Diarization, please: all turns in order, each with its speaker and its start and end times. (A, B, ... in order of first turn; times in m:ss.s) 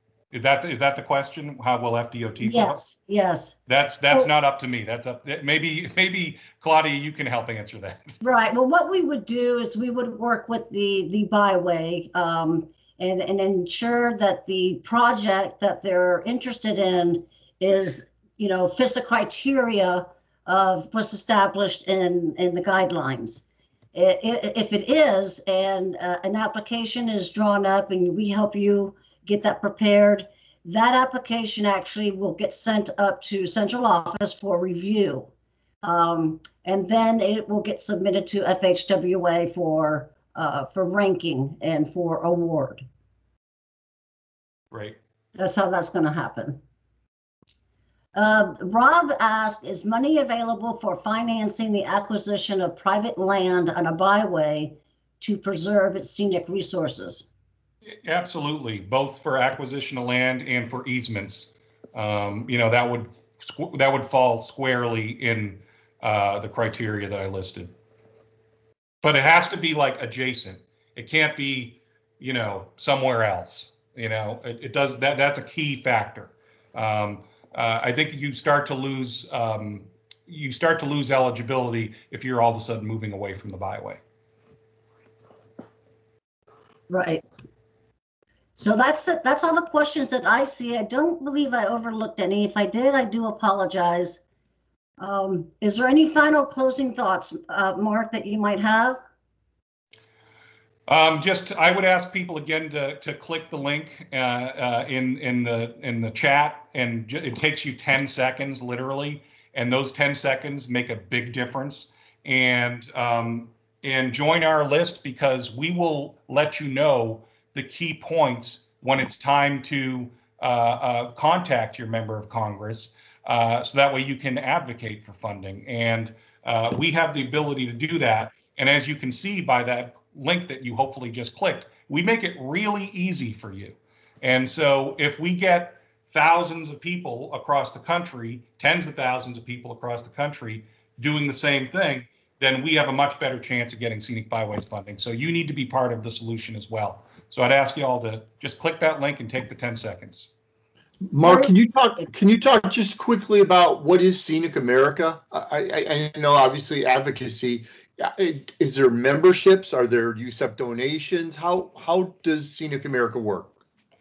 0:00.3-0:02.8 A
0:02.4-0:03.6 B
0:03.7-0:08.2 A
0:08.2-0:35.3 B
0:35.8-0:42.8 B
0:44.7-0:45.0 A
0:45.4-0:46.6 B
0:48.1-0:57.3 B
0:57.9-1:07.7 A
1:09.0-1:24.0 A
1:26.9-1:27.2 B
1:28.6-1:34.2 B
1:35.0-1:39.0 B
1:40.9-2:30.3 A
2:31.1-2:43.5 C
2:31.2-2:31.5 B